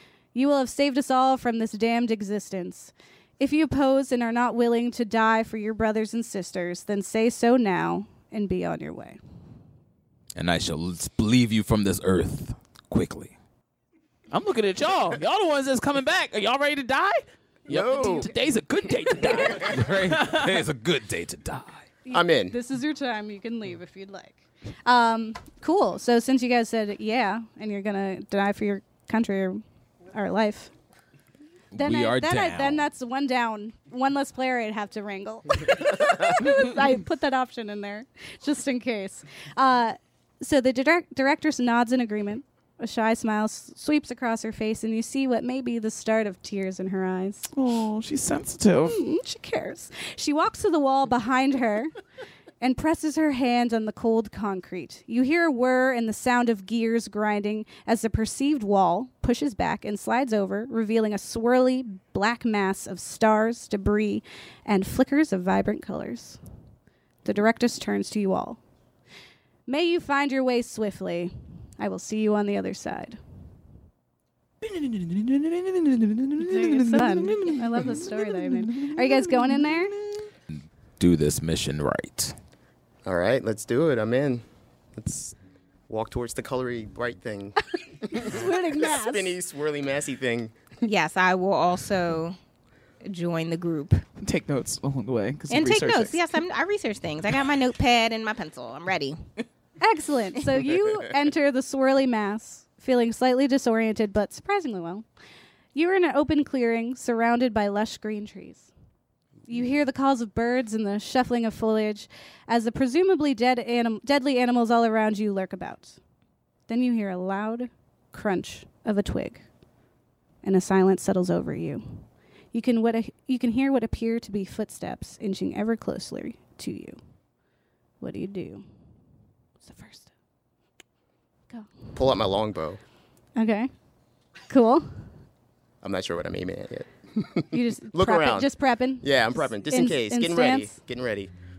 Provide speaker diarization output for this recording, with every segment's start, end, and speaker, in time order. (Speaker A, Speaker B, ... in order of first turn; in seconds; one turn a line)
Speaker A: 0.3-9.2
Speaker B: 10.4-13.3
Speaker C: 14.3-20.6
Speaker D: 17.7-18.3
Speaker A: 17.9-18.3
Speaker D: 19.2-19.6
Speaker B: 19.6-21.9
Speaker A: 22.1-30.7
Speaker D: 22.1-22.6
Speaker B: 31.7-32.9
Speaker A: 31.8-47.5
Speaker C: 47.5-49.0
Speaker A: 48.9-51.9
Speaker A: 52.6-66.4
Speaker A: 67.2-68.6
Speaker A: 69.7-73.2
Speaker C: 74.6-79.6
Speaker A: 76.4-79.9
Speaker B: 80.5-82.3
Speaker D: 83.0-84.5
Speaker D: 85.0-85.3
Speaker D: 85.9-90.6
Speaker A: 88.1-89.3
Speaker E: 90.8-92.4
Speaker E: 93.0-94.0
Speaker C: 94.2-96.2
Speaker E: 95.5-99.2
Speaker A: 99.8-105.1
Speaker A: 105.8-108.7
Speaker A: 109.5-116.0
Speaker A: 116.7-119.4
Speaker A: 120.4-127.0
Speaker A: 128.0-128.6
Speaker A: 129.6-130.1
Speaker D: 131.9-132.8
Speaker A: 133.4-133.7
Speaker A: 134.5-134.9
Speaker D: 135.8-141.3
Speaker A: 137.5-140.7